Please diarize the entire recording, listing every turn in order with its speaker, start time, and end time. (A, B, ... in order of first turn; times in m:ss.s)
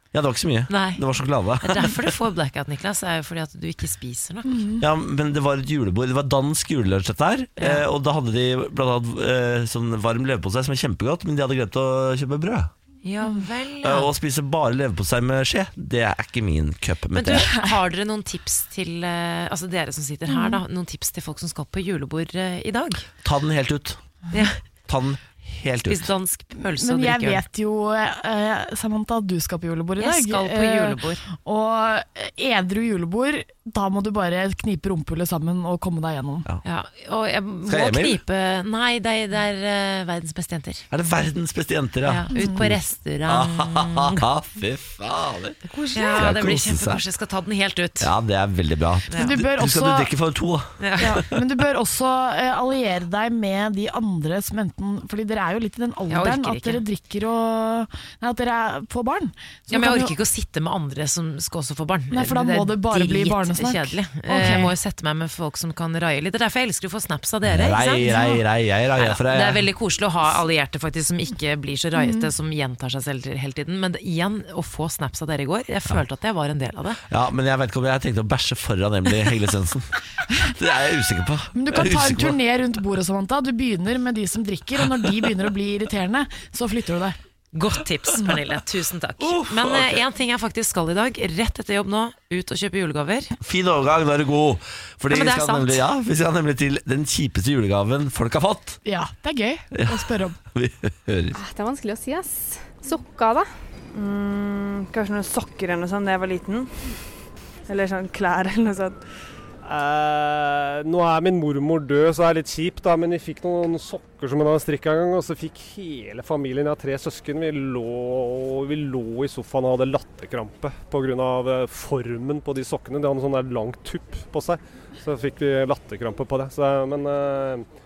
0:00.1-0:01.9 A
0:00.7-0:01.0 B
0:01.6-0:04.7 B
0:04.5-0:04.8 C
0:04.8-0:12.7 A
0:07.6-0:07.8 B
0:13.0-0:14.1 B
0:13.8-0:17.5 A
0:17.1-0:23.1 B
0:20.3-0:20.6 C
0:23.2-0:24.0 A
0:24.3-0:24.6 B
0:24.9-0:26.1 A
0:25.9-0:27.4 B
0:26.6-0:36.5 C
0:30.0-0:31.2 B
0:36.6-0:40.8 B
0:37.7-0:38.2 A
0:40.9-0:45.6 A
0:42.1-0:44.2 B
0:42.4-0:42.7 C
0:45.7-0:46.3 C
0:45.9-0:48.1 B
0:46.2-0:47.0 A
0:48.0-0:51.1 A
0:49.2-0:50.1 C
0:50.8-0:51.2 B
0:51.0-1:00.2 C
0:56.1-0:56.8 B
0:59.7-1:08.2 B
1:02.1-1:04.7 C
1:07.4-1:09.6 A
1:07.8-1:08.4 C
1:09.0-1:17.0 B
1:12.0-1:12.3 C
1:17.1-1:22.4 A
1:21.6-1:27.2 C
1:27.5-1:33.4 B
1:29.2-1:30.0 A
1:33.4-1:38.8 A
1:35.1-1:35.8 B
1:38.8-1:40.4 C
1:39.7-1:41.4 A
1:41.3-1:46.7 D
1:47.7-1:49.0 D
1:49.6-2:07.6 E